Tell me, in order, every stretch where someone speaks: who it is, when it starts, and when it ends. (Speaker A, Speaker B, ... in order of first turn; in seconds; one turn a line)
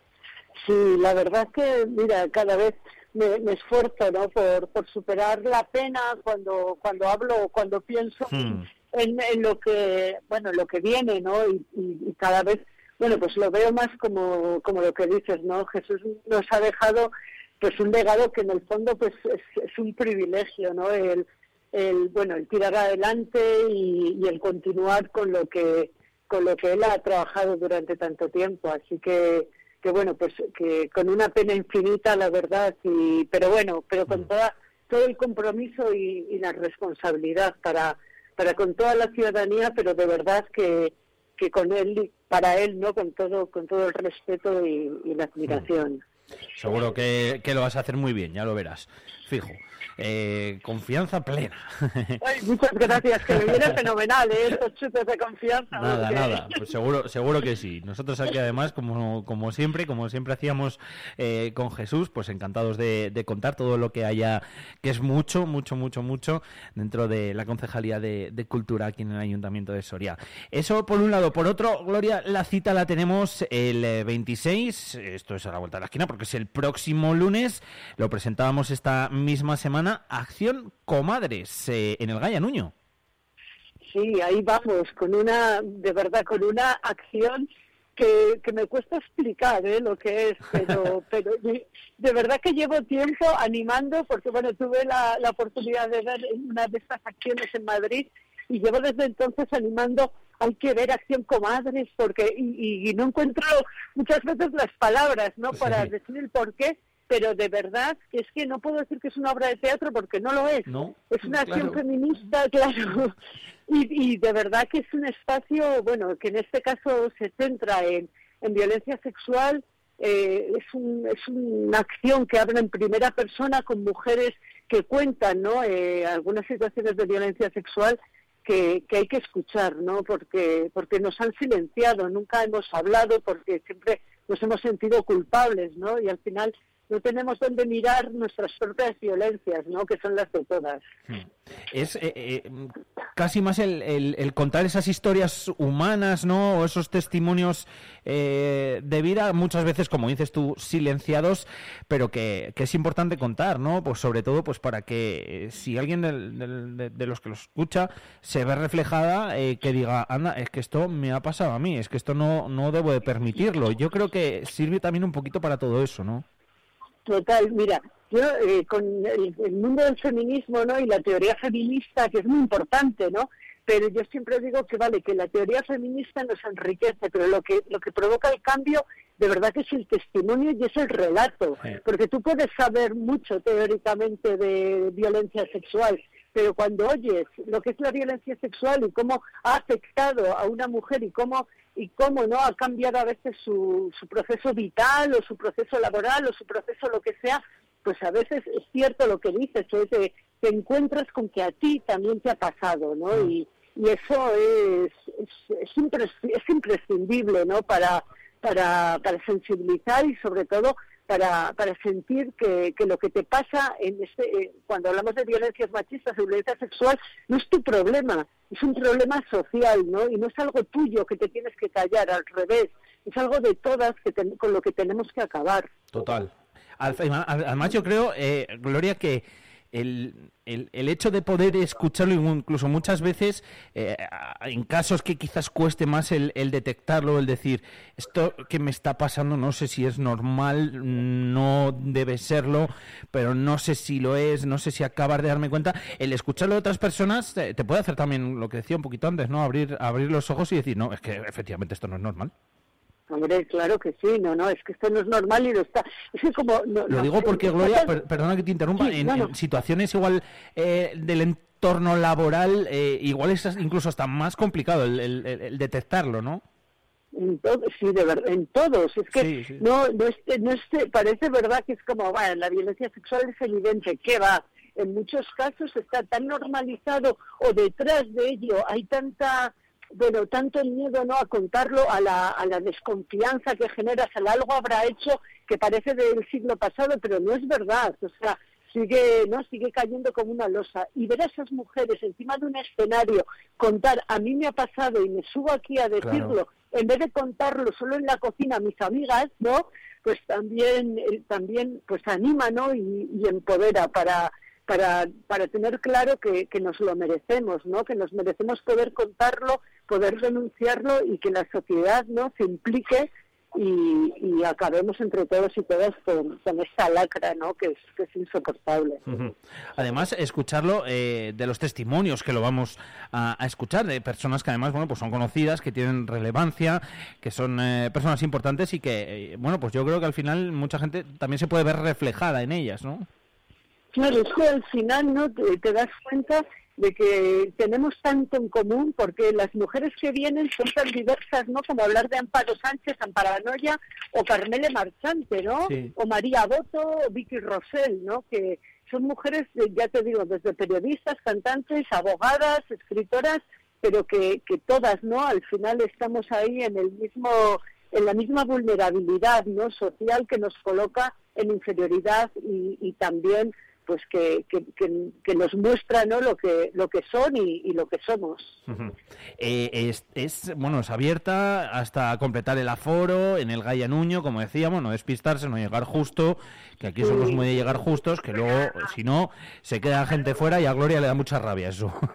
Speaker A: 0.6-46.0
Speaker B: 8.3-8.6
Speaker B: 46.6-52.2
Speaker A: 52.2-56.6
Speaker B: 55.7-82.7
Speaker A: 83.8-113.2
Speaker B: 105.5-105.9
Speaker B: 110.7-111.8
Speaker A: 113.7-140.8
Speaker B: 141.7-166.2
Speaker A: 167.1-225.7
Speaker B: 225.9-252.3
Speaker A: 253.1-257.9
Speaker B: 256.9-266.4
Speaker A: 258.8-259.3
Speaker A: 267.1-319.0
Speaker B: 269.1-269.6
Speaker B: 296.0-296.3
Speaker B: 319.1-333.1
Speaker A: 333.9-368.6
Speaker B: 368.7-382.0
Speaker A: 377.0-377.4